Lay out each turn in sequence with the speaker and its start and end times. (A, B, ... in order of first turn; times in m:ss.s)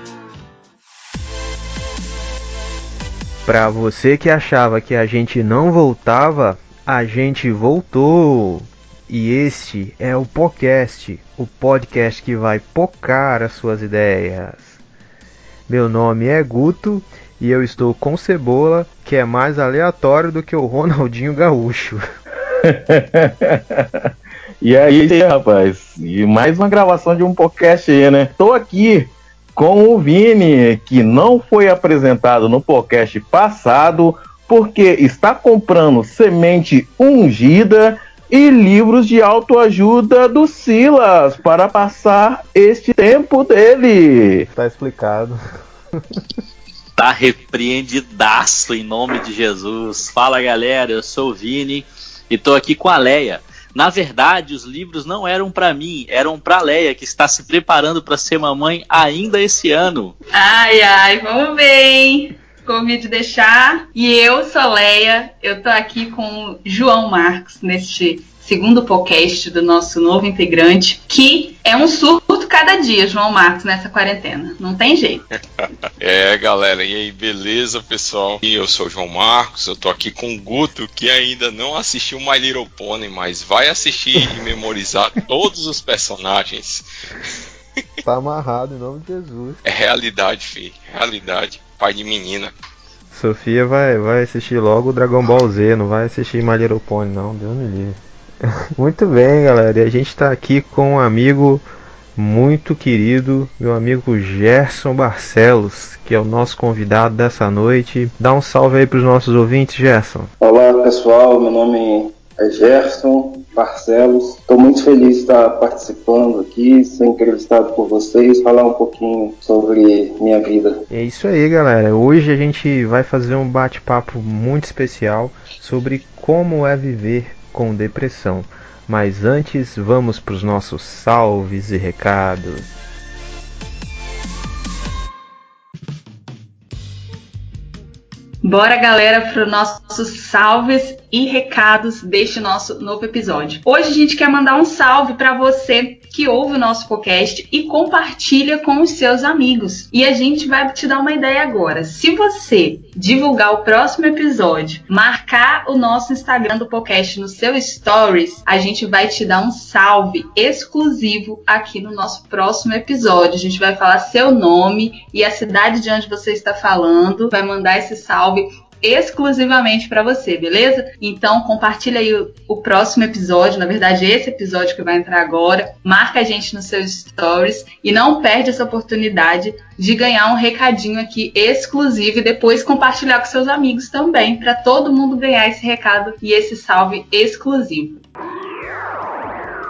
0:03.4-0:14.8 A
0:15.7-0:22.0 A
0:22.6-0:23.8 B
0:24.6-0:44.5 B
0:44.5-0:45.4 A
0:47.0-1:00.1 C
1:00.3-1:15.2 D
1:16.0-1:26.8 E
1:28.0-1:29.6 A
1:29.6-1:32.5 E
1:33.1-1:38.0 A
1:38.8-1:41.6 A
1:42.2-1:50.3 A
1:50.4-2:00.8 F
2:00.9-2:12.7 A
2:18.4-3:08.0 D